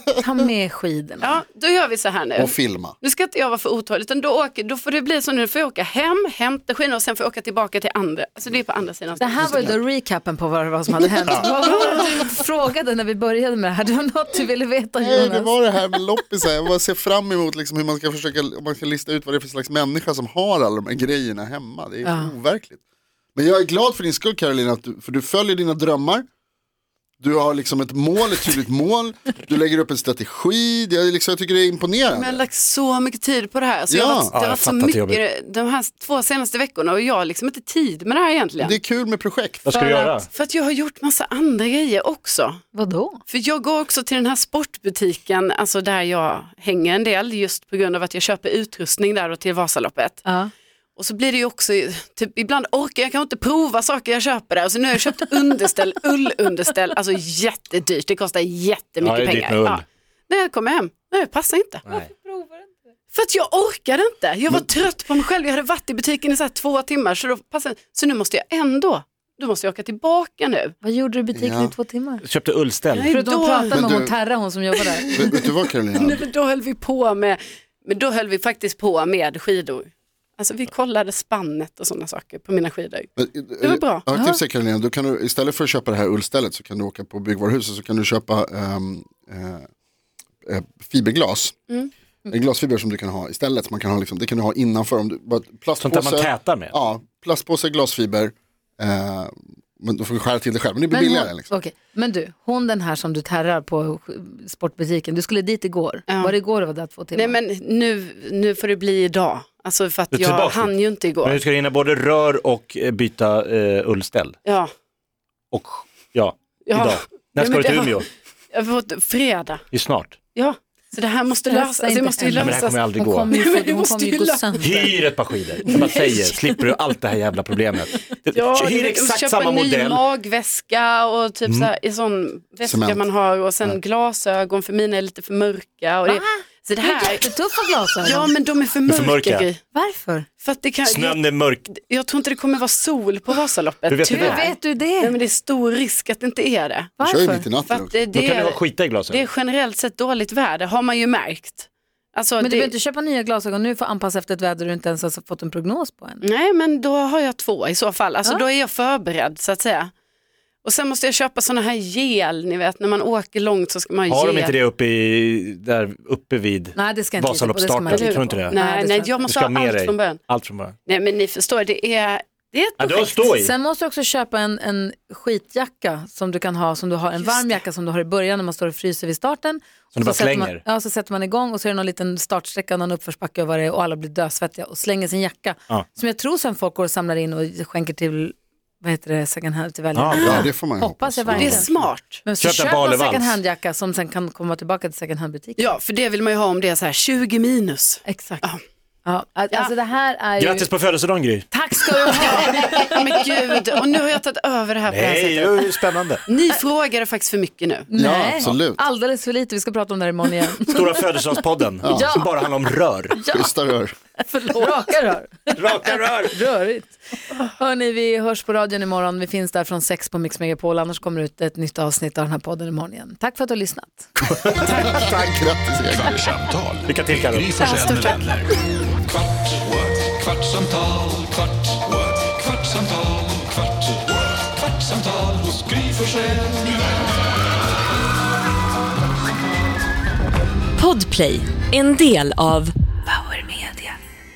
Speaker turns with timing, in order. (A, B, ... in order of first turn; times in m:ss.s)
0:00.2-0:01.4 A
0:01.2-0:09.7 B
0:02.4-0:03.0 C
0:09.2-0:15.9 A
0:09.3-0:09.8 C
0:15.0-0:22.8 C
0:22.0-0:22.3 A
0:23.3-0:26.2 C
0:27.2-0:32.4 C
0:32.1-0:38.8 B
0:33.9-0:34.3 C
0:34.3-0:35.2 D
0:38.6-0:39.7 C
0:39.6-0:40.3 D
0:39.7-0:40.2 A
0:40.3-0:42.6 B
0:42.7-0:43.2 A
0:43.3-0:50.2 B
0:50.2-0:50.5 A
0:51.0-1:01.8 B
0:59.0-0:59.8 D
1:01.9-1:02.7 A
1:03.1-1:10.7 B
1:10.8-1:12.2 A
1:11.3-1:11.7 C
1:12.2-1:13.1 D
1:12.9-1:13.7 B
1:13.1-1:15.4 A
1:13.7-1:14.1 C
1:15.0-1:16.2 C
1:15.9-1:23.1 B
1:23.2-1:29.7 C
1:23.6-1:24.2 B
1:30.4-1:31.5 C
1:32.3-1:41.5 C
1:35.8-1:36.7 D
1:40.9-1:47.4 A
1:46.1-1:46.3 B
1:47.1-1:51.4 B
1:50.1-1:54.4 D
1:54.4-1:54.7 B
1:55.5-1:58.0 D
1:56.6-1:59.6 B
1:59.7-2:00.2 D
2:00.3-2:04.9 B
2:01.5-2:05.0 A
2:02.3-2:03.3 D
2:04.6-2:10.1 D
2:05.7-2:06.6 B
2:08.3-2:17.2 B
2:11.5-2:11.7 D
2:12.6-2:13.0 C
2:16.1-2:18.3 A
2:18.0-2:19.6 B
2:18.8-2:19.5 D
2:19.7-2:20.3 A
2:20.4-2:26.9 B
2:20.8-2:21.7 D
2:23.9-2:24.5 D
2:24.0-2:25.2 A
2:27.0-2:27.5 A
2:27.0-2:28.0 C
2:27.7-2:32.7 B
2:28.1-2:29.2 D
2:32.4-2:36.2 A
2:36.2-2:39.9 B
2:40.6-2:44.6 B
2:44.1-2:48.6 D
2:46.7-2:49.2 A
2:47.9-2:50.2 B
2:49.2-2:50.8 D
2:50.8-2:53.3 B
2:52.8-2:53.5 D
2:53.4-3:11.7 A
2:57.2-2:57.6 B
2:59.9-3:00.6 D
3:09.9-3:10.5 D
3:10.1-3:11.9 C
3:11.3-3:12.2 B
3:12.2-3:15.8 A
3:12.4-3:13.4 D
3:15.6-3:18.6 B
3:18.0-3:18.4 A
3:19.0-3:20.7 A
3:20.4-3:21.6 D
3:21.5-3:23.2 A
3:22.2-3:25.7 B
3:24.9-3:26.2 D
3:26.3-3:27.9 B
3:27.9-3:31.0 A
3:27.9-3:28.8 C
3:30.7-3:33.2 D
3:31.8-3:32.2 C
3:31.8-3:32.3 A
3:33.1-3:33.5 A
3:33.2-3:33.9 C
3:34.2-3:44.1 A
3:35.5-3:36.4 D
3:44.4-3:46.3 C
3:44.6-3:45.1 B
3:44.6-3:45.2 D
3:45.9-3:48.5 E
3:46.8-3:47.6 D
3:47.6-3:48.2 B
4:00.8-4:03.9 F